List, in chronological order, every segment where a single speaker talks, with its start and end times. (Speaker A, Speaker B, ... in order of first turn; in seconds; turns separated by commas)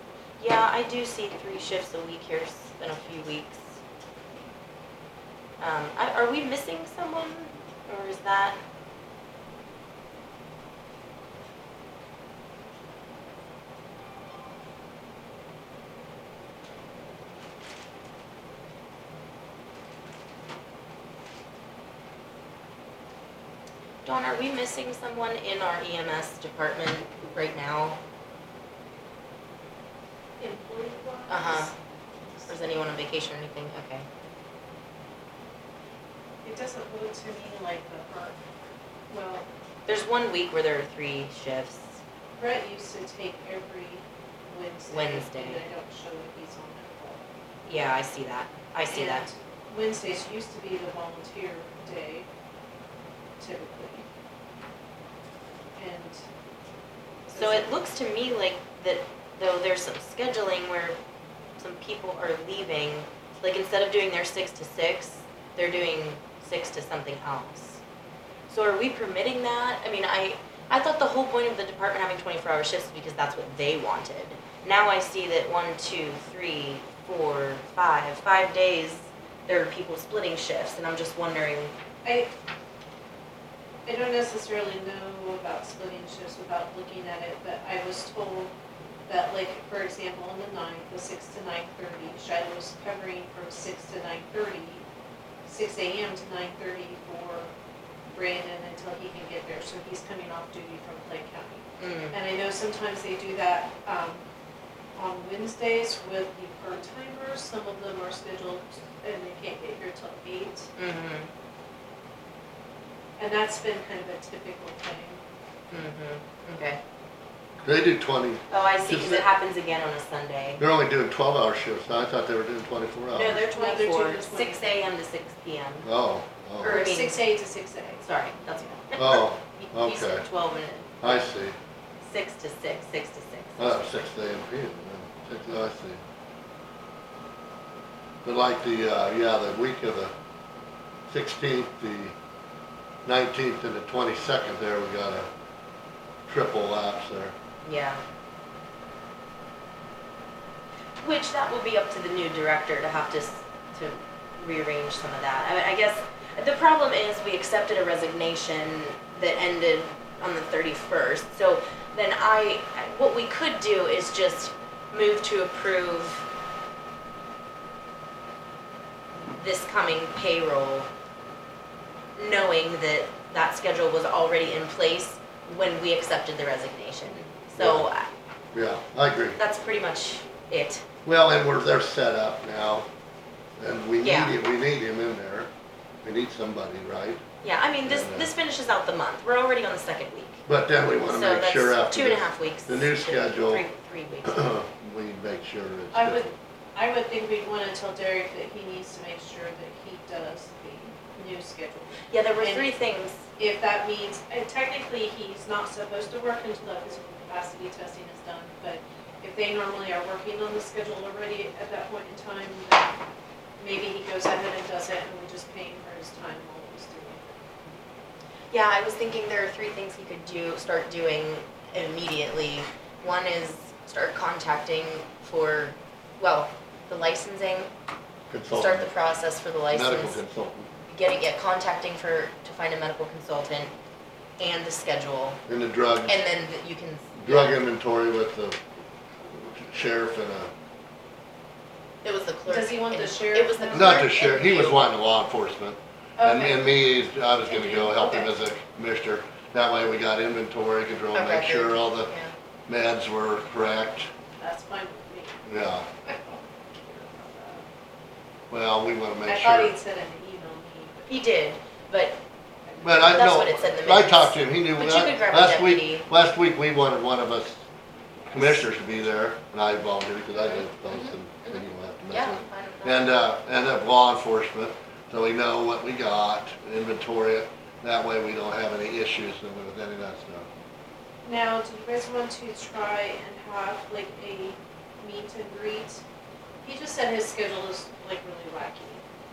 Speaker A: 0.4-3.8, Speaker A: 5.6-8.6, Speaker A: 24.1-28.0, Speaker B: 30.4-31.7, Speaker A: 31.3-31.7, Speaker A: 32.5-34.1, Speaker B: 36.4-38.4, Speaker B: 39.1-39.5, Speaker A: 39.9-42.0, Speaker B: 42.4-47.3, Speaker A: 44.9-45.6, Speaker A: 47.7-49.3, Speaker B: 48.9-52.3, Speaker B: 53.4-54.0, Speaker B: 55.8-56.2, Speaker B: 57.3-57.7, Speaker A: 57.4-61.0, Speaker A: 61.6-67.8, Speaker A: 68.5-81.7, Speaker B: 82.0-82.3, Speaker B: 83.8-88.5, Speaker B: 89.1-94.9, Speaker B: 95.5-97.5, Speaker B: 98.1-104.2, Speaker A: 101.8-102.2, Speaker B: 105.0-110.7, Speaker A: 110.8-111.3, Speaker B: 113.2-115.2, Speaker A: 115.7-116.8, Speaker C: 117.6-119.3, Speaker A: 118.5-120.6, Speaker C: 120.6-123.4, Speaker A: 123.1-125.9, Speaker B: 123.5-124.7, Speaker C: 125.8-126.8, Speaker A: 126.6-127.2, Speaker B: 126.6-128.0, Speaker A: 128.0-131.2, Speaker C: 129.0-130.2, Speaker C: 131.0-131.6, Speaker A: 132.0-133.8, Speaker C: 133.6-136.0, Speaker C: 138.2-140.1, Speaker C: 141.1-142.1, Speaker C: 143.1-145.3, Speaker C: 146.3-147.3, Speaker A: 147.6-148.0, Speaker A: 151.0-166.2, Speaker A: 169.3-170.9, Speaker A: 172.2-178.1, Speaker C: 177.4-177.9, Speaker C: 178.5-179.4, Speaker A: 179.4-180.8, Speaker C: 181.1-182.9, Speaker C: 183.6-185.5, Speaker A: 184.0-184.4, Speaker C: 186.0-187.2, Speaker A: 187.4-190.4, Speaker C: 187.8-188.3, Speaker C: 190.5-193.7, Speaker A: 191.1-194.4, Speaker C: 194.2-196.4, Speaker B: 195.9-202.7, Speaker A: 202.1-203.2, Speaker B: 203.4-213.0, Speaker B: 213.6-217.4, Speaker A: 218.5-227.7, Speaker C: 228.3-228.9, Speaker A: 228.5-230.2, Speaker C: 229.7-230.7, Speaker A: 230.9-233.7, Speaker A: 234.4-235.4, Speaker C: 235.5-236.2, Speaker A: 236.1-237.6, Speaker C: 237.2-238.6, Speaker C: 239.3-240.5, Speaker A: 242.0-244.8, Speaker B: 242.5-244.1, Speaker C: 243.7-252.1, Speaker B: 246.2-246.7, Speaker A: 247.5-248.3, Speaker A: 251.1-252.3, Speaker C: 252.7-254.1, Speaker B: 254.4-255.4, Speaker C: 255.5-255.9, Speaker B: 256.0-257.7, Speaker C: 258.5-259.8, Speaker B: 259.3-261.1, Speaker A: 261.1-262.2, Speaker B: 262.7-263.1, Speaker C: 262.8-267.7, Speaker A: 263.0-266.1, Speaker C: 268.3-280.5, Speaker A: 270.4-273.1, Speaker B: 281.2-286.0, Speaker B: 286.6-289.0